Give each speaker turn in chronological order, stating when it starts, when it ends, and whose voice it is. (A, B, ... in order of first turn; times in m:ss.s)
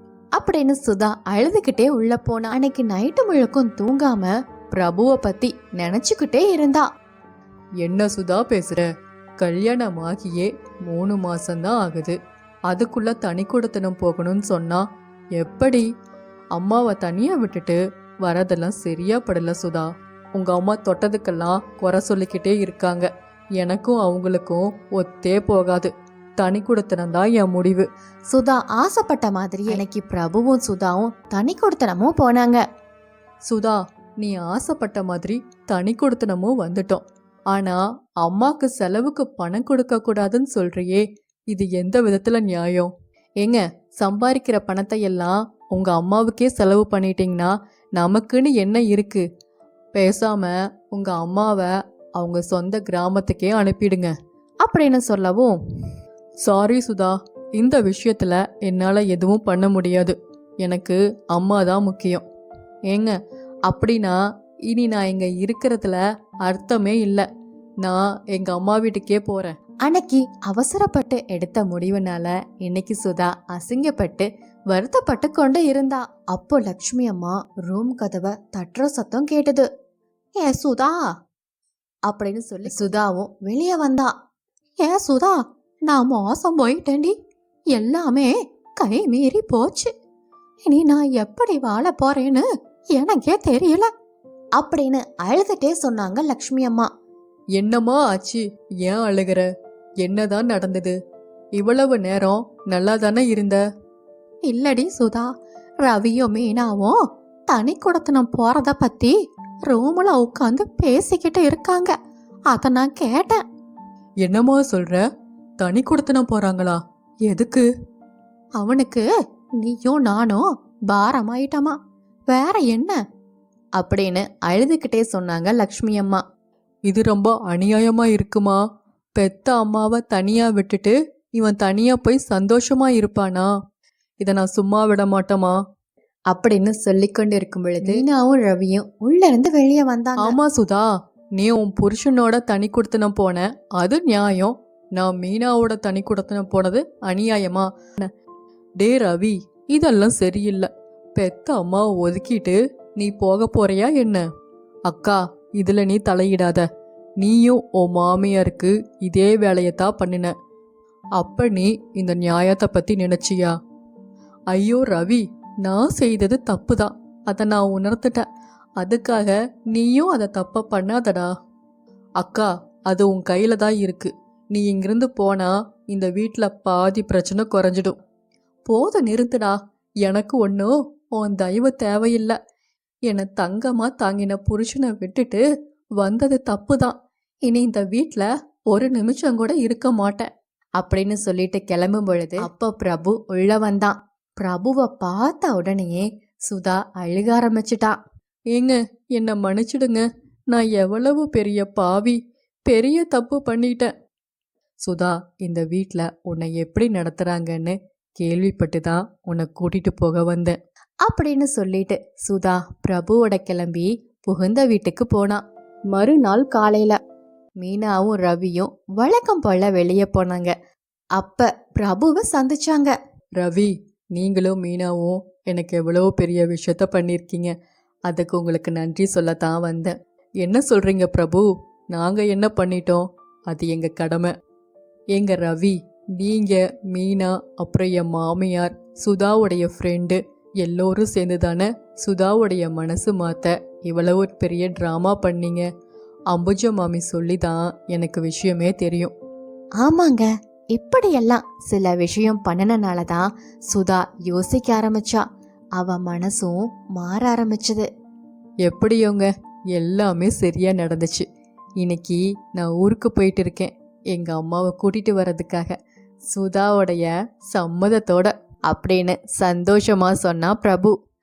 0:00.4-0:06.9 A
0:07.8-0:08.9 B
0:09.4-0:12.2 B
0:12.7-0:14.9 B
0:15.4-0:15.9 B
0:16.5-0:27.9 B
0:28.3-0:32.6 A
0:33.5-0:49.2 B
0:50.0-0:54.1 B
0:54.6-0:55.6 A
0:56.4-1:02.2 B
1:02.9-1:03.2 B
1:03.7-1:04.2 B
1:04.7-1:07.3 B
1:07.8-1:09.5 B
1:09.9-1:19.7 A
1:20.4-1:21.0 A
1:22.1-1:24.2 A
1:24.8-1:27.2 A
1:27.7-1:29.9 A
1:30.7-1:33.9 A
1:34.6-1:36.9 A
1:37.6-1:39.5 B
1:40.0-1:41.0 B
1:41.6-1:43.6 B
1:44.5-1:45.3 A
1:45.8-1:51.9 A
1:52.5-1:53.4 A
1:54.2-1:55.0 B
1:55.6-1:57.7 B
1:58.6-1:59.1 A
1:59.6-2:01.8 A
2:02.3-2:03.0 A
2:03.8-2:06.2 A
2:06.9-2:08.6 B
2:09.2-2:13.5 B
2:14.2-2:15.6 B
2:16.3-2:16.6 A
2:16.6-2:18.0 B
2:17.8-2:20.4 A
2:20.2-2:28.1 B
2:28.8-2:34.2 B
2:34.9-2:36.7 B
2:37.2-2:40.3 B
2:41.2-2:43.6 B
2:44.5-2:48.3 B
2:48.8-2:51.3 B
2:52.2-2:58.0 B
2:58.7-3:02.4 B
3:03.1-3:05.4 B
3:06.0-3:07.0 B
3:07.5-3:10.3 B
3:10.8-3:18.0 A
3:11.9-3:12.5 B
3:18.5-3:23.9 B
3:24.8-3:30.6 B
3:31.1-3:37.0 A
3:37.6-3:40.5 A
3:41.2-3:42.9 A
3:43.4-3:47.5 B
3:48.1-3:54.3 B
3:55.2-4:05.7 B
4:06.3-4:09.1 B
4:09.8-4:15.2 A
4:15.8-4:17.9 A
4:18.6-4:21.3 B
4:21.8-4:25.8 B
4:26.3-4:28.3 B
4:28.7-4:30.9 A
4:29.7-4:30.2 B